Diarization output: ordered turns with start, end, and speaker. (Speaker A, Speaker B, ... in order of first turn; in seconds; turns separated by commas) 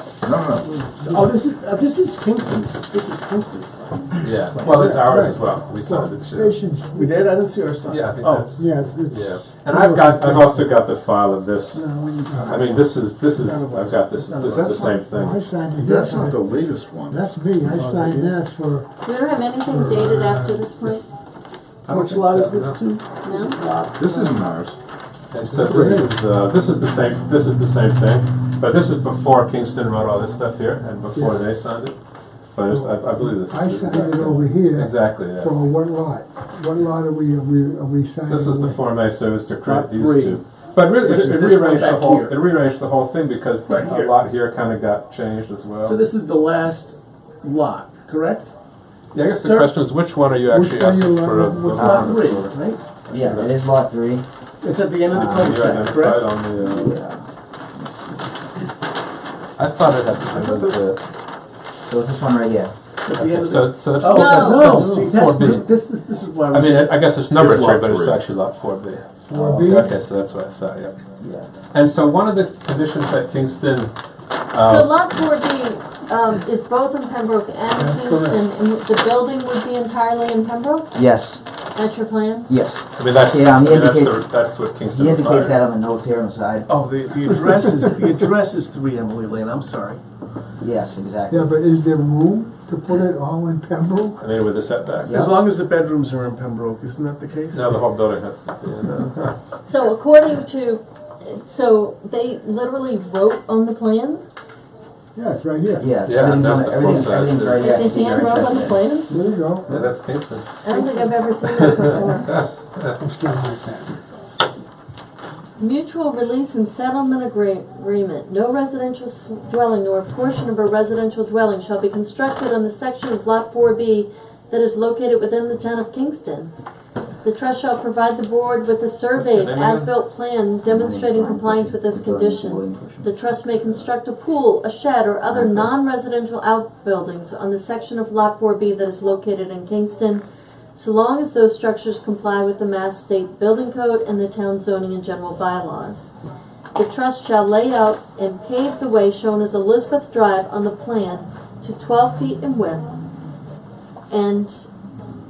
Speaker A: 0.2-0.7, Speaker B: 0.7-4.3, Speaker C: 4.2-6.6, Speaker D: 4.6-7.1, Speaker B: 6.9-8.5, Speaker C: 7.9-11.8, Speaker D: 8.6-10.6, Speaker B: 11.7-12.7, Speaker D: 12.3-12.6, Speaker C: 12.4-15.4, Speaker B: 13.5-15.1, Speaker A: 14.4-15.1, Speaker D: 15.1-16.4, Speaker A: 15.8-17.2, Speaker D: 17.1-18.9, Speaker B: 17.6-18.4, Speaker E: 19.0-21.0, Speaker D: 19.7-20.6, Speaker B: 21.9-24.5, Speaker C: 21.9-22.7, Speaker E: 23.2-23.6, Speaker A: 23.9-24.8, Speaker C: 25.3-32.0, Speaker D: 25.4-26.1, Speaker D: 31.2-31.5, Speaker C: 32.5-35.5, Speaker D: 32.7-38.8, Speaker C: 38.3-46.0, Speaker B: 39.6-42.5, Speaker B: 43.7-44.2, Speaker B: 45.8-48.5, Speaker C: 49.1-52.5, Speaker B: 49.4-49.8, Speaker D: 50.5-52.3, Speaker F: 51.8-52.3, Speaker B: 51.8-52.8, Speaker C: 53.0-53.5, Speaker F: 53.1-54.3, Speaker B: 54.6-56.3, Speaker F: 55.1-55.7, Speaker C: 55.4-57.0, Speaker F: 56.5-57.2, Speaker F: 57.8-58.2, Speaker C: 59.6-61.0, Speaker A: 60.3-60.9, Speaker F: 61.9-62.7, Speaker B: 63.0-67.2, Speaker C: 63.1-65.7, Speaker E: 64.1-64.7, Speaker C: 66.5-71.0, Speaker A: 67.3-68.3, Speaker D: 69.3-69.9, Speaker F: 69.3-69.9, Speaker F: 71.2-71.5, Speaker C: 71.7-73.9, Speaker C: 74.5-74.9, Speaker E: 74.6-80.9, Speaker D: 77.8-78.4, Speaker F: 80.9-81.4, Speaker E: 81.7-82.5, Speaker F: 82.5-84.3, Speaker C: 83.0-85.6, Speaker F: 84.9-86.7, Speaker B: 86.7-90.0, Speaker F: 90.6-91.5, Speaker D: 91.3-94.2, Speaker C: 94.2-95.3, Speaker F: 95.0-95.4, Speaker B: 95.1-97.7, Speaker C: 97.5-99.3, Speaker E: 99.7-104.2, Speaker D: 105.2-105.9, Speaker F: 105.8-108.8, Speaker C: 106.0-107.8, Speaker E: 107.6-109.2, Speaker D: 109.1-109.8, Speaker C: 109.7-110.6, Speaker E: 110.6-112.3, Speaker C: 112.4-112.9, Speaker D: 113.0-113.9, Speaker E: 115.6-126.5, Speaker E: 127.2-140.2, Speaker C: 129.2-129.9, Speaker F: 130.7-133.1, Speaker F: 135.3-135.7, Speaker E: 140.8-146.1, Speaker E: 146.8-152.9, Speaker E: 154.1-154.6